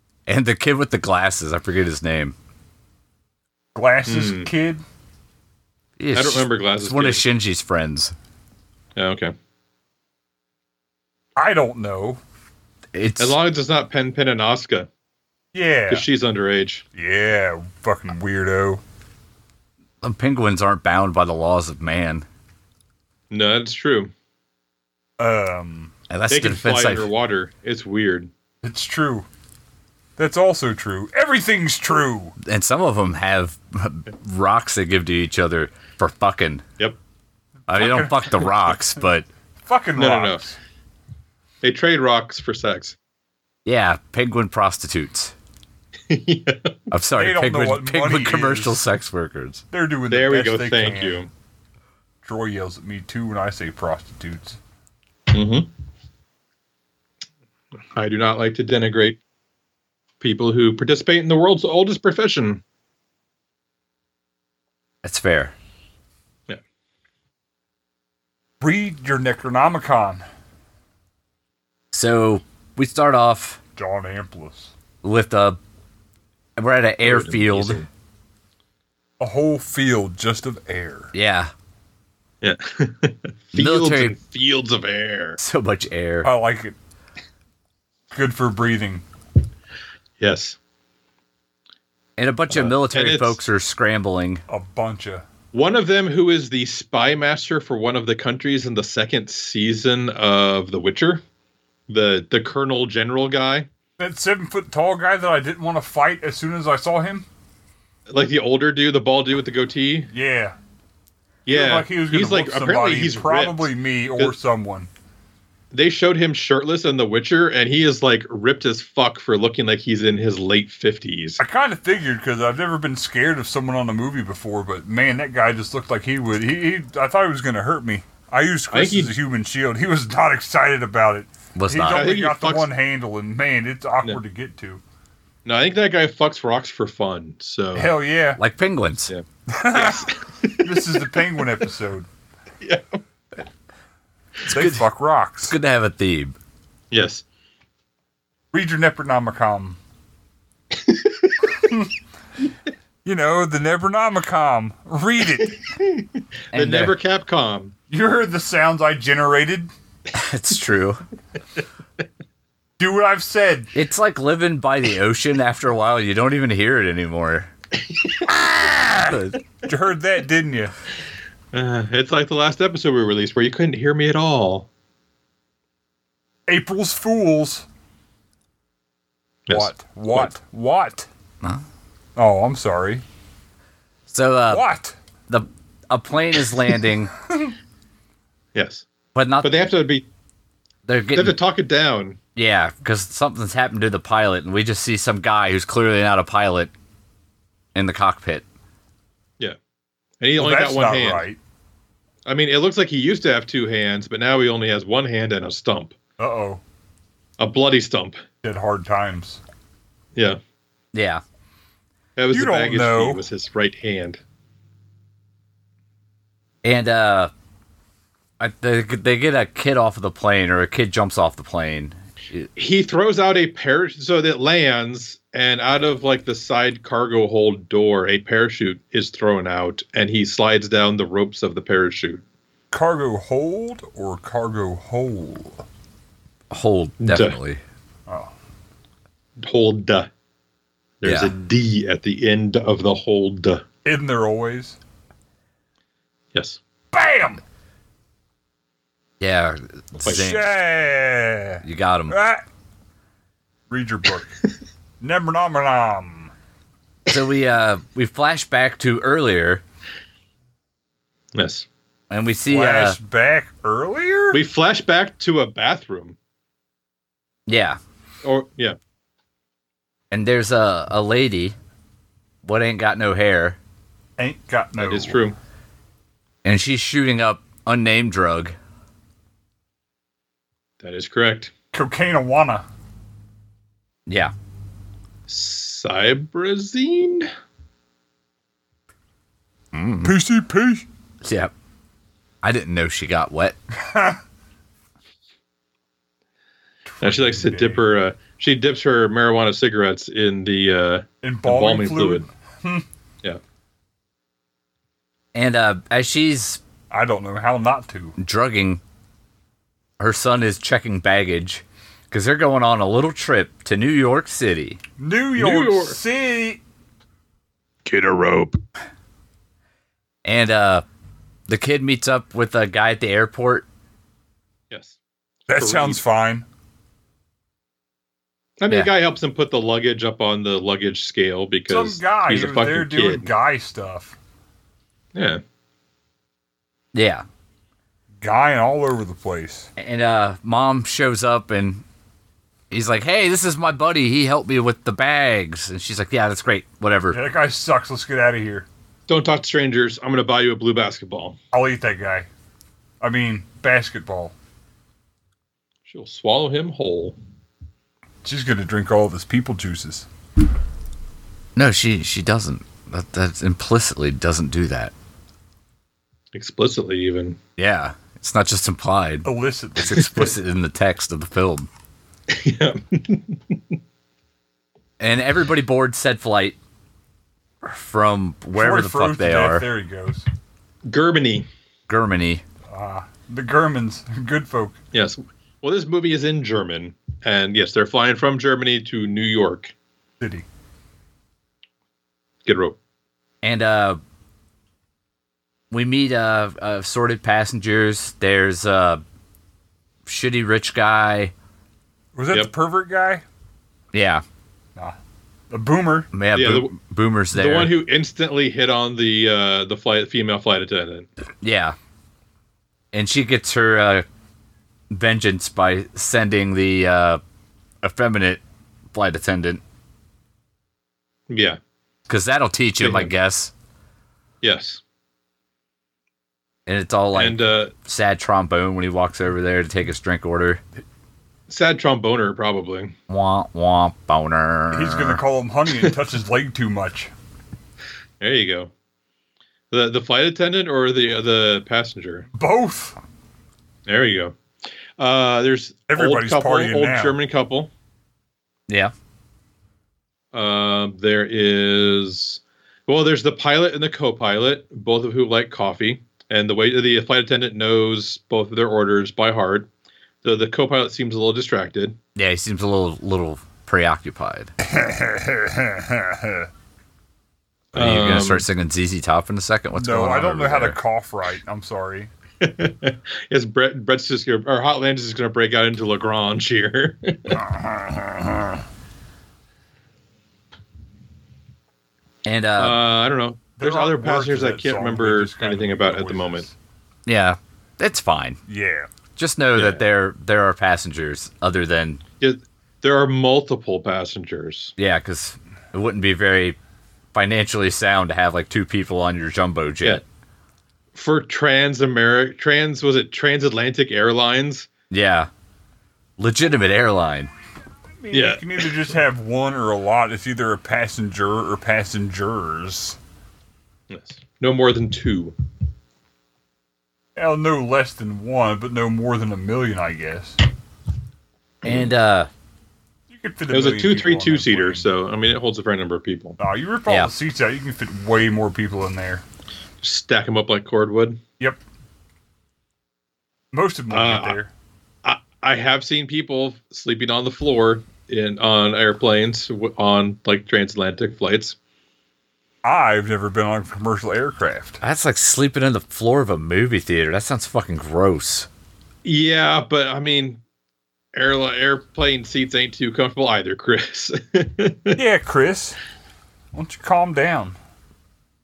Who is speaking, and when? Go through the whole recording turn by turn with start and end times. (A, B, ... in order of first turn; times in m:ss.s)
0:00.3-0:02.3 A
0:03.7-0:04.8 B
0:04.0-0:04.5 C
0:06.0-0:08.1 A
0:06.1-0:07.2 C
0:09.0-0:09.3 C
0:11.4-0:12.2 B
0:12.9-0:13.4 A
0:13.2-0:14.9 C
0:15.5-0:16.0 B
0:15.9-0:16.8 C
0:16.9-0:18.8 B
0:20.0-0:22.2 A
0:23.3-0:24.1 C
0:25.2-0:25.9 B
0:26.1-0:27.1 A
0:26.3-0:28.3 C
0:28.6-0:29.3 B
0:30.2-0:32.3 B
0:32.4-0:36.6 A
0:37.7-0:39.3 A
0:37.7-0:38.8 B
0:39.6-0:40.6 B
0:40.0-0:40.4 C
0:41.6-0:43.0 C
0:43.6-0:45.3 A
0:46.1-0:46.8 C
0:46.9-0:49.6 A
0:47.2-0:48.8 B
0:49.7-0:51.2 B
0:50.1-0:51.3 C
0:52.2-0:54.6 B
0:55.3-0:55.7 C
0:57.9-0:59.2 C
1:00.2-1:02.6 C
1:05.0-1:05.5 A
1:08.6-1:10.2 B
1:11.9-1:13.6 A
1:13.8-1:14.7 B
1:15.0-1:15.6 A
1:16.6-1:17.8 A
1:17.0-1:17.9 C
1:19.2-1:21.1 B
1:21.1-1:21.5 A
1:22.4-1:25.4 C
1:23.5-1:24.1 A
1:25.4-1:26.3 A
1:26.2-1:26.8 B
1:28.1-1:29.0 B
1:30.2-1:30.6 C
1:32.2-1:34.4 A
1:32.5-1:33.4 C
1:34.5-1:35.2 B
1:35.5-1:41.2 C
1:41.9-1:43.7 C
1:44.0-1:47.3 B
1:48.1-1:50.1 C
1:50.1-1:50.6 B
1:51.4-1:54.3 C
1:51.5-1:54.9 B
1:55.7-2:01.4 C
2:01.4-2:14.8 B
2:08.7-2:09.1 C
2:11.6-2:12.1 A
2:11.9-2:12.7 C
2:15.4-2:17.9 C
2:17.7-2:18.4 B
2:18.4-2:19.1 A
2:19.1-2:20.9 C
2:19.5-2:22.1 B
2:22.6-2:23.0 C
2:24.5-2:24.8 A
2:24.5-2:25.6 B
2:25.4-2:26.3 A
2:26.9-2:27.2 C
2:28.5-2:29.8 B
2:30.7-2:31.4 C
2:31.6-2:31.9 B
2:33.0-2:35.6 B
2:35.7-2:37.7 C
2:36.5-2:37.0 A
2:37.9-2:39.7 B
2:40.1-2:41.0 A
2:42.8-2:43.7 B
2:43.7-2:47.5 A
2:48.2-2:49.4 A
2:49.6-2:50.7 B
2:51.5-2:54.7 C
2:56.5-2:57.7 B
2:59.5-3:00.3 C
2:59.5-3:01.1 B
3:02.2-3:03.0 B
3:04.1-3:04.6 A
3:04.5-3:05.0 B
3:05.3-3:07.1 A
3:08.5-3:08.8 C
3:09.1-3:09.5 A
3:09.4-3:10.0 C
3:10.8-3:11.3 A
3:11.1-3:12.2 C
3:12.4-3:16.7 A
3:17.7-3:18.4 A
3:20.2-3:21.2 C
3:20.4-3:21.4 B
3:22.2-3:26.0 C
3:26.2-3:26.6 B
3:27.4-3:28.2 C
3:28.4-3:29.4 B
3:30.9-3:31.2 A
3:32.2-3:34.2 C
3:32.3-3:33.2 B
3:36.6-3:37.3 A
3:38.4-3:42.5 A
3:42.6-3:52.2 C
3:52.7-3:55.6 B
3:56.5-3:57.6 A
3:57.0-3:57.4 C
3:58.1-3:58.3 B
3:59.4-4:00.1 C
4:01.0-4:03.6 C
4:01.0-4:01.3 A
4:03.8-4:04.8 B
4:06.3-4:06.6 C
4:06.9-4:07.4 B
4:09.2-4:10.4 A
4:10.0-4:10.3 C
4:10.1-4:12.4 B
4:11.6-4:12.2 A
4:13.7-4:14.3 B
4:15.0-4:16.3 B
4:17.1-4:19.6 A
4:21.3-4:21.6 C
4:22.1-4:23.0 A
4:22.5-4:24.4 B
4:24.3-4:26.2 C
4:27.5-4:27.8 A
4:28.2-4:28.8 C
4:30.1-4:31.5 A
4:32.4-4:33.6 A
4:34.2-4:35.2 B
4:34.8-4:35.3 C
4:36.4-4:38.6 A
4:40.8-4:41.5 C
4:41.7-4:42.6 B
4:44.1-4:44.3 A
4:45.3-4:47.3 C
4:49.7-4:50.1 A
4:50.0-4:50.8 B
4:51.2-4:51.5 A
4:52.4-4:53.6 A
4:53.7-4:54.2 B
4:56.8-4:57.8 B
4:57.0-5:02.2 C
5:01.2-5:02.8 B
5:05.3-5:06.6 A
5:06.9-5:08.1 B
5:08.2-5:08.8 A
5:10.0-5:14.8 A
5:15.0-5:16.6 B
5:15.4-5:16.0 C
5:17.9-5:18.5 C
5:20.2-5:20.8 A
5:21.5-5:23.6 A
5:24.7-5:26.0 C
5:25.5-5:26.4 B
5:28.6-5:33.3 C
5:31.7-5:34.2 B
5:35.1-5:35.4 C
5:36.9-5:37.2 A
5:38.2-5:39.7 B
5:39.8-5:41.8 A
5:42.7-5:47.2 A
5:47.1-5:48.6 B
5:49.1-5:51.4 C
5:51.5-5:52.3 B
5:53.0-5:54.3 B
5:55.9-5:57.2 C
5:58.2-6:00.1 B
6:01.6-6:04.9 A
6:06.3-6:07.4 C
6:07.6-6:11.7 A
6:09.2-6:10.2 B
6:12.3-6:13.6 C
6:15.0-6:16.6 A
6:17.6-6:19.7 A
6:18.6-6:20.2 B
6:20.8-6:21.4 C
6:21.9-6:22.4 A
6:22.7-6:24.8 B
6:24.9-6:29.7 C
6:30.2-6:30.5 B
6:32.4-6:32.8 C
6:33.4-6:34.0 A
6:35.7-6:39.0 A
6:40.0-6:41.3 A
6:42.1-6:43.2 B
6:43.9-6:44.2 A
6:45.5-6:46.1 B
6:46.1-6:47.7 A
6:46.3-6:46.7 C
6:47.3-6:51.1 C
6:51.4-6:51.8 A
6:52.9-6:54.0 A
6:54.9-6:57.2 A
6:57.8-6:58.4 A
6:58.9-6:59.6 A
7:01.3-7:01.6 C
7:02.1-7:03.5 A
7:02.8-7:03.1 C
7:04.4-7:04.8 C
7:06.7-7:10.6 A
7:07.1-7:07.7 C
7:11.5-7:12.9 C
7:13.1-7:15.2 A
7:14.7-7:17.1 B
7:18.2-7:18.7 C
7:19.7-7:22.3 C
7:22.4-7:23.0 B
7:23.9-7:24.3 C
7:25.0-7:27.7 C
7:25.9-7:27.2 B
7:30.3-7:39.7 C
7:40.2-7:42.0 C
7:42.2-7:44.5 A
7:44.6-7:46.5 B
7:47.7-7:48.4 C
7:47.7-7:50.8 A
7:49.8-7:52.1 B
7:52.4-7:57.4 C
7:57.3-7:58.6 B
8:02.2-8:02.8 A
8:02.6-8:06.4 C
8:03.6-8:06.5 B
8:07.0-8:08.4 A
8:08.5-8:08.9 B
8:09.2-8:12.0 A
8:09.6-8:09.8 C
8:12.2-8:14.7 C
8:14.8-8:16.6 A
8:17.1-8:20.0 A
8:21.0-8:24.7 C
8:24.9-8:25.3 A
8:26.2-8:27.3 A
8:28.0-8:33.0 B
8:28.1-8:28.6 C
8:33.9-8:35.3 C
8:37.2-8:40.4 B
8:41.6-8:42.3 A
8:41.6-8:41.9 C
8:43.1-8:44.9 B
8:43.5-8:46.4 C
8:46.4-8:49.2 B
8:49.8-8:51.2 C
8:53.5-8:54.5 B
8:53.9-8:54.4 C
8:55.0-9:01.6 C
9:02.6-9:04.8 B
9:04.8-9:08.5 A
9:09.0-9:10.4 C
9:11.1-9:15.0 C
9:15.0-9:15.8 B
9:16.5-9:17.6 B